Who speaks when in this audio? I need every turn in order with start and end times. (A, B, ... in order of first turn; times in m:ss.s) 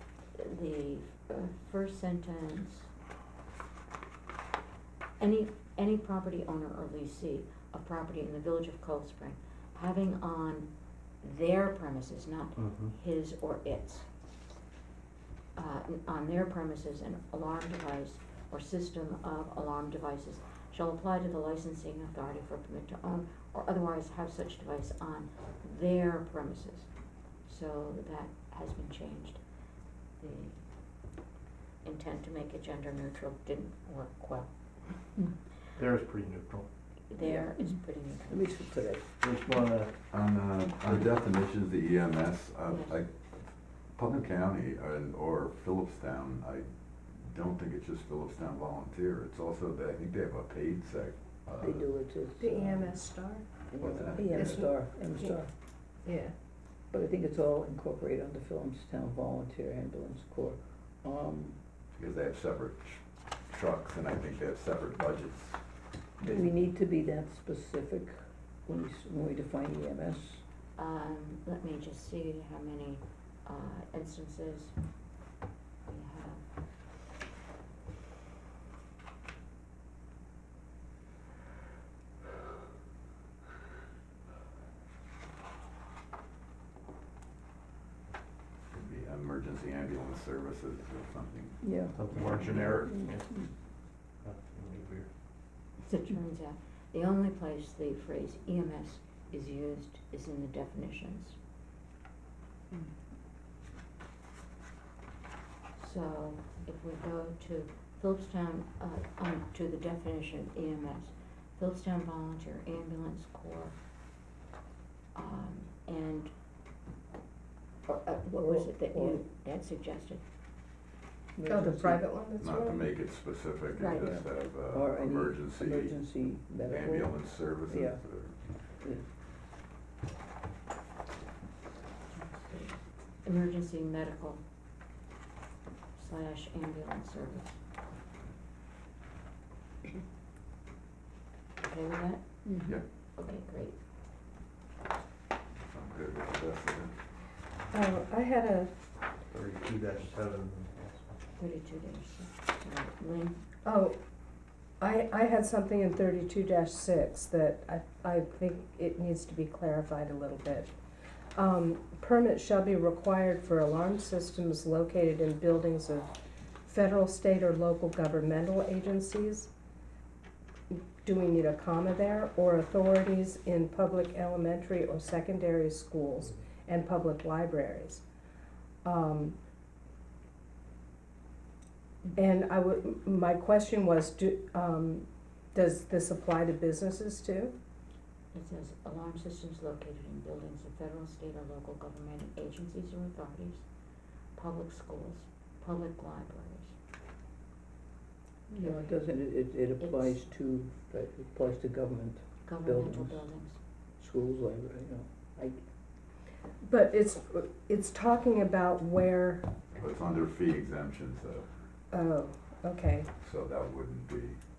0:00.4-0:02.9 A
0:05.2-0:10.7 A
0:11.2-0:14.1 A
0:12.6-0:13.0 B
0:15.6-0:26.9 A
0:27.4-0:29.4 A
0:30.2-0:30.6 A
0:31.8-0:34.5 A
0:35.7-0:36.7 B
0:37.1-0:38.5 A
0:37.2-0:37.6 C
0:38.3-0:39.1 C
0:39.2-0:39.9 B
0:40.1-0:51.9 D
0:42.7-0:43.0 A
0:51.6-0:52.9 C
0:52.4-0:53.5 E
0:53.7-0:55.5 C
0:53.8-0:54.7 D
0:54.3-0:54.7 E
0:56.0-0:56.3 E
0:56.9-1:01.6 C
1:02.0-1:05.6 D
1:06.2-1:10.4 C
1:06.2-1:06.5 D
1:10.8-1:14.7 A
1:15.8-1:16.4 A
1:28.7-1:32.9 D
1:31.6-1:32.0 C
1:31.9-1:33.4 B
1:34.2-1:35.1 B
1:35.8-1:41.4 A
1:45.8-1:53.7 A
1:55.1-1:56.3 A
1:57.8-2:00.2 A
1:58.3-1:59.2 C
2:01.4-2:02.0 C
2:01.5-2:02.9 E
2:02.4-2:06.0 D
2:03.8-2:04.1 A
2:04.0-2:08.0 C
2:06.6-2:08.3 D
2:12.1-2:14.4 A
2:16.0-2:17.6 A
2:21.6-2:22.2 A
2:22.4-2:22.8 C
2:23.2-2:23.8 A
2:25.7-2:26.9 D
2:27.7-2:28.7 E
2:29.3-2:31.2 B
2:31.4-2:33.4 A
2:33.6-2:33.9 E
2:34.8-2:40.7 E
2:41.4-2:46.1 E
2:46.6-2:49.5 E
2:50.7-2:58.0 E
2:58.8-2:59.4 E
3:02.2-3:07.5 E
3:08.3-3:13.6 A
3:14.4-3:16.7 A
3:18.5-3:23.3 C
3:18.5-3:18.8 A
3:19.8-3:20.2 A
3:22.4-3:23.6 A
3:24.0-3:25.6 C
3:26.6-3:29.5 E
3:29.8-3:31.5 D
3:31.9-3:33.1 E
3:33.2-3:34.4 D